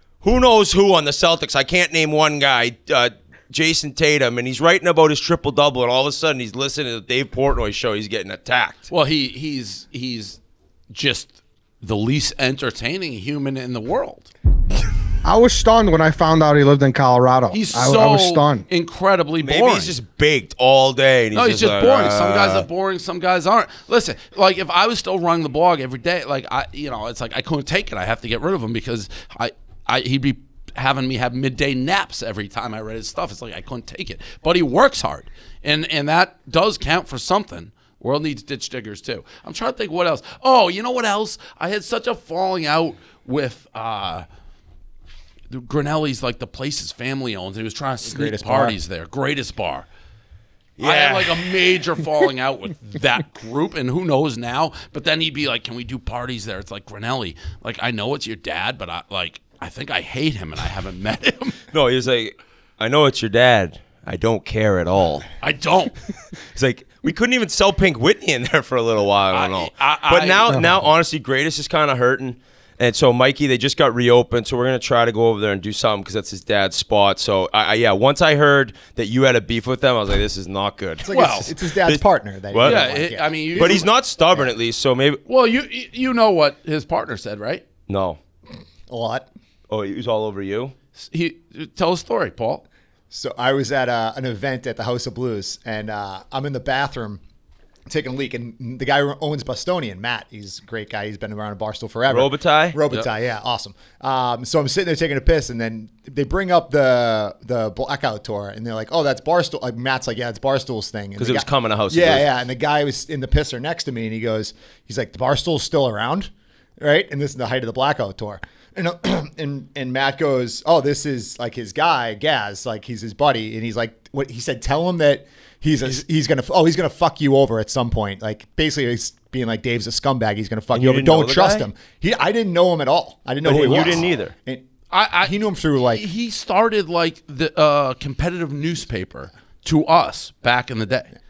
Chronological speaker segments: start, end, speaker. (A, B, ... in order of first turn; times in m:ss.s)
0:00.2-0:08.9 A
0:08.9-0:10.4 B
0:10.9-0:14.3 B
0:15.2-0:18.6 C
0:17.5-0:20.0 B
0:19.4-0:22.7 A
0:21.3-0:44.3 B
0:45.5-0:49.9 B
0:48.0-0:48.8 D
0:50.8-0:51.5 A
0:50.8-1:01.6 B
1:01.7-1:05.3 A
1:05.4-1:05.9 B
1:06.5-1:22.9 A
1:09.3-1:10.6 B
1:21.0-1:24.5 D
1:21.1-1:21.5 B
1:22.6-1:23.9 B
1:23.5-1:25.2 A
1:25.3-1:27.6 B
1:27.9-1:28.2 A
1:28.9-1:29.3 D
1:29.7-1:30.7 A
1:31.0-1:32.6 B
1:33.1-1:37.2 D
1:37.9-2:14.7 D
1:42.1-1:42.8 A
1:51.2-1:52.3 A
2:10.7-2:11.7 A
2:13.4-2:14.3 A
2:13.7-2:14.0 B
2:14.9-2:15.4 B
2:15.2-2:16.0 D
2:15.9-2:21.1 B